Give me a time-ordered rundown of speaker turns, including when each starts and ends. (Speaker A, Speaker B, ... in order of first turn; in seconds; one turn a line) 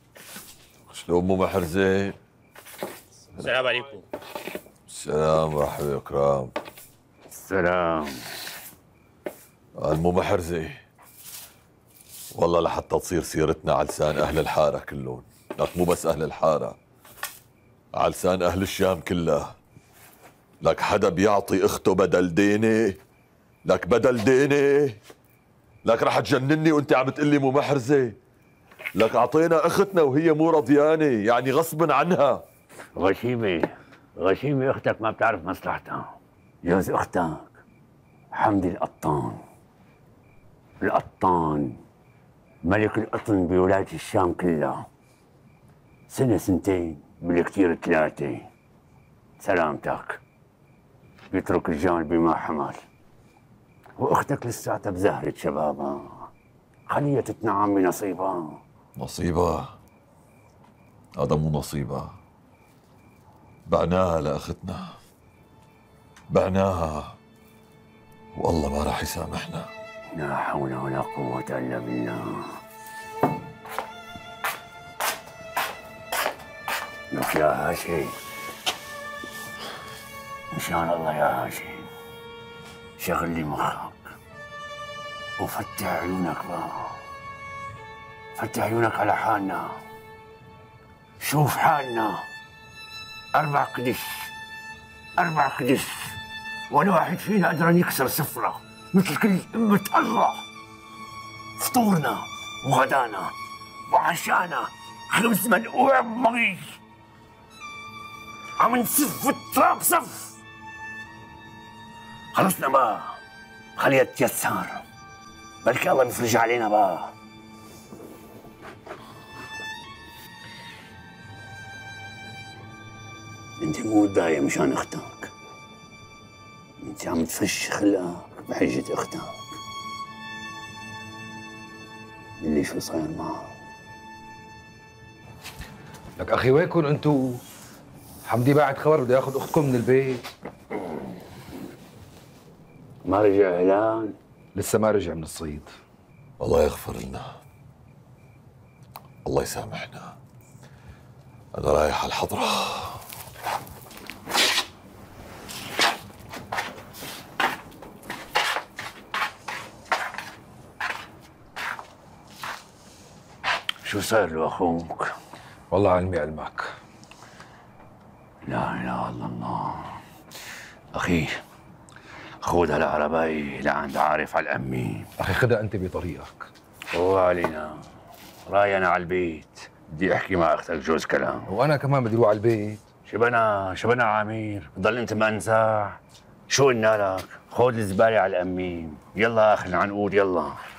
Speaker A: 0.9-2.2
Speaker B: 3.6-4.0
Speaker A: 4.9-6.5
Speaker C: 7.3-8.3
Speaker A: 9.8-10.8
Speaker A: 12.3-16.8
Speaker A: 17.9-19.6
Speaker A: 20.6-23.0
Speaker A: 23.6-25.0
Speaker A: 25.8-28.2
Speaker A: 28.9-32.4
Speaker C: 33.0-37.6
Speaker C: 38.3-39.4
Speaker C: 40.8-41.8
Speaker C: 42.6-44.9
Speaker C: 46.1-48.5
Speaker C: 49.4-50.2
Speaker C: 51.3-52.8
Speaker C: 54.0-56.3
Speaker C: 56.9-58.6
Speaker A: 59.0-59.7
Speaker A: 61.2-62.1
Speaker A: 63.7-65.0
Speaker A: 66.3-67.2
Speaker A: 68.3-69.7
Speaker C: 70.1-72.6
Speaker C: 77.1-78.2
Speaker C: 80.5-81.9
Speaker C: 83.0-84.1
Speaker C: 85.4-87.0
Speaker C: 88.3-89.8
Speaker C: 91.2-92.2
Speaker C: 93.3-94.3
Speaker C: 95.2-96.2
Speaker C: 96.7-100.4
Speaker C: 101.6-103.3
Speaker C: 103.8-106.8
Speaker C: 108.6-110.3
Speaker C: 112.3-113.2
Speaker C: 113.8-114.8
Speaker C: 115.6-117.1
Speaker C: 123.6-125.3
Speaker C: 126.8-129.4
Speaker C: 132.4-133.5
Speaker B: 136.2-137.4
Speaker B: 138.2-140.2
Speaker C: 143.1-144.2
Speaker B: 144.5-145.7
Speaker A: 146.4-147.3
Speaker A: 149.2-150.2
Speaker A: 151.6-153.0
Speaker C: 163.8-165.1
Speaker B: 165.7-166.8
Speaker C: 168.4-170.0
Speaker C: 170.9-171.3
Speaker C: 172.4-175.1
Speaker B: 175.2-176.5
Speaker C: 176.9-177.8
Speaker C: 178.4-181.5
Speaker B: 181.5-182.8
Speaker C: 183.0-190.6